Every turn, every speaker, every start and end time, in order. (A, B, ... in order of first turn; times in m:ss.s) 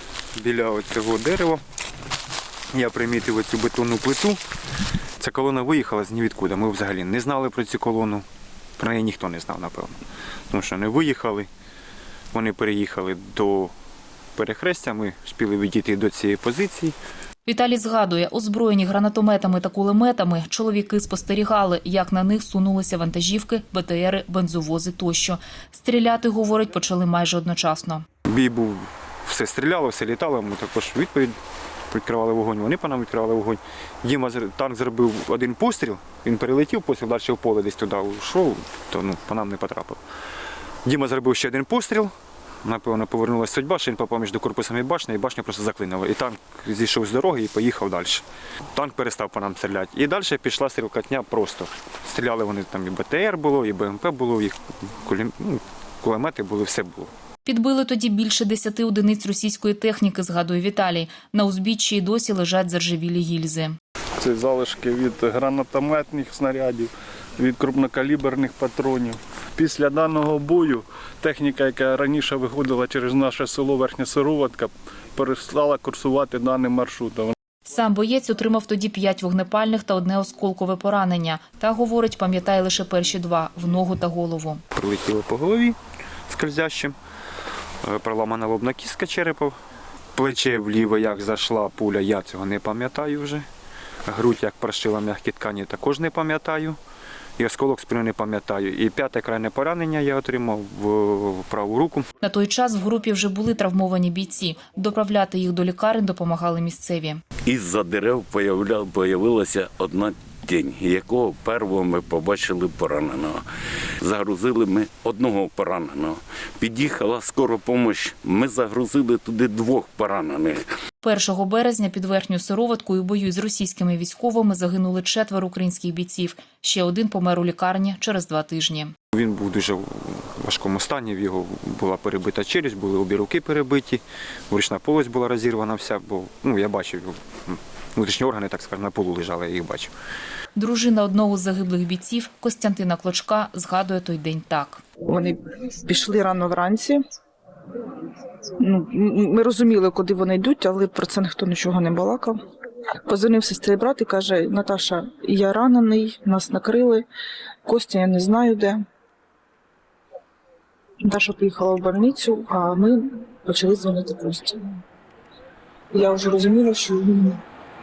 0:00.4-0:01.6 A
0:02.7-0:04.4 A
0:05.2-0:08.2 A
0:08.8-0:10.0 A
0:10.5-0:11.5 A
0:12.3-0:13.7 A
0:14.4-0:17.0 A
0:17.5-0:28.0 B
0:28.3-0:31.4 A
0:31.9-0:40.0 A
0:40.8-0:42.1 A
0:42.6-0:57.1 A
0:57.5-1:03.8 B
1:04.2-1:17.4 C
1:17.7-1:24.6 B
1:24.8-1:25.8 A
1:26.3-1:27.0 A
1:27.8-1:29.6 A
1:30.2-1:33.4 A
1:34.0-1:36.8 A
1:37.4-1:42.0 A
1:42.2-1:47.2 B
1:47.4-1:53.4 D
1:54.0-2:00.6 D
2:01.0-2:08.9 B
2:09.1-2:19.9 A
2:20.6-2:24.8 B
2:25.1-2:27.0 E
2:28.6-2:32.4 E
2:33.0-2:37.1 E
2:37.6-2:38.8 E
2:41.0-2:44.7 E
2:45.9-2:47.4 E